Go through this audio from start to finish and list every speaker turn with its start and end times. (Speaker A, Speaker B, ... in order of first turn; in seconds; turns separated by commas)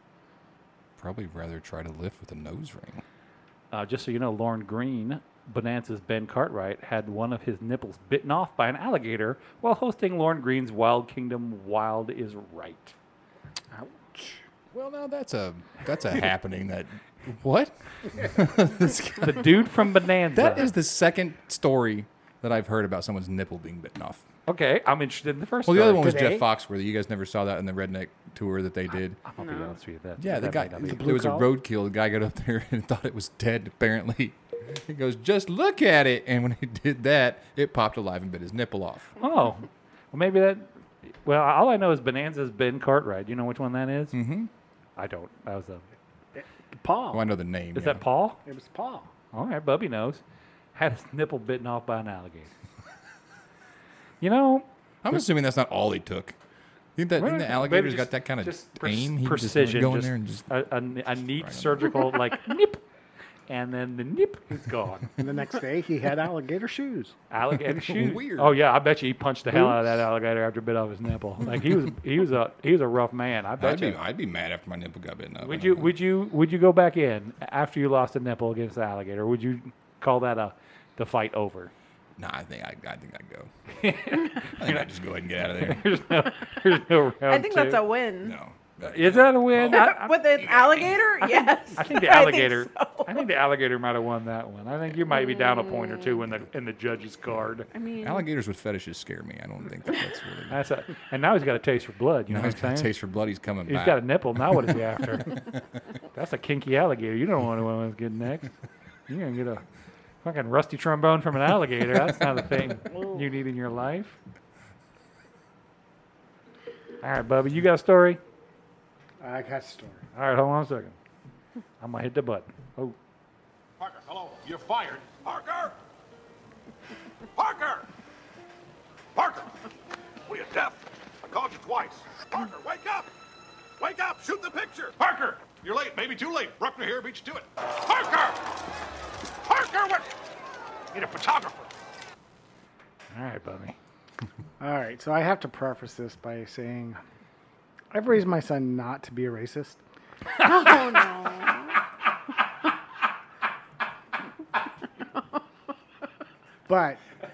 Speaker A: 1.0-3.0, Speaker B: 3.7-12.9, Speaker C: 13.7-14.4, Speaker A: 14.7-19.6, Speaker B: 19.2-20.7, Speaker A: 20.3-24.2, Speaker B: 24.5-26.3, Speaker A: 25.6-29.2, Speaker C: 26.0-26.5, Speaker B: 29.2-31.1, Speaker D: 29.4-29.7, Speaker A: 30.2-39.1, Speaker C: 30.8-31.5, Speaker B: 39.2-44.1, Speaker A: 44.1-44.5, Speaker B: 45.0-45.8, Speaker C: 46.3-47.2, Speaker A: 47.1-48.0, Speaker B: 47.7-48.4, Speaker C: 48.4-49.1, Speaker B: 49.3-50.2, Speaker B: 50.7-52.5, Speaker B: 54.2-54.7, Speaker A: 55.0-56.4, Speaker A: 57.0-60.5, Speaker B: 57.2-62.8, Speaker A: 61.3-62.0, Speaker B: 63.5-65.2, Speaker C: 65.2-67.1, Speaker B: 67.3-74.0, Speaker A: 67.7-68.5, Speaker A: 73.6-75.9, Speaker B: 75.4-81.7, Speaker A: 82.2-83.5, Speaker B: 83.7-84.9, Speaker A: 84.4-86.0, Speaker B: 85.6-87.8, Speaker D: 87.2-88.4, Speaker A: 88.2-91.0, Speaker B: 88.8-90.2, Speaker D: 89.7-93.2, Speaker B: 91.7-97.7, Speaker D: 95.1-96.0, Speaker D: 97.7-98.2, Speaker A: 98.0-100.6, Speaker B: 100.5-102.9, Speaker A: 102.3-104.5, Speaker B: 103.7-105.4, Speaker B: 106.1-108.5, Speaker B: 109.1-109.6, Speaker B: 110.2-114.2, Speaker B: 117.0-118.2, Speaker C: 119.2-120.0, Speaker B: 120.1-120.9, Speaker B: 121.8-122.9, Speaker E: 123.8-125.8, Speaker E: 127.3-127.9, Speaker E: 129.1-129.5, Speaker E: 130.3-133.1, Speaker E: 133.8-138.4, Speaker E: 139.4-140.1, Speaker E: 140.9-141.7, Speaker B: 143.1-143.8, Speaker C: 144.6-147.0, Speaker C: 147.9-149.8, Speaker D: 150.3-151.8, Speaker C: 156.7-157.0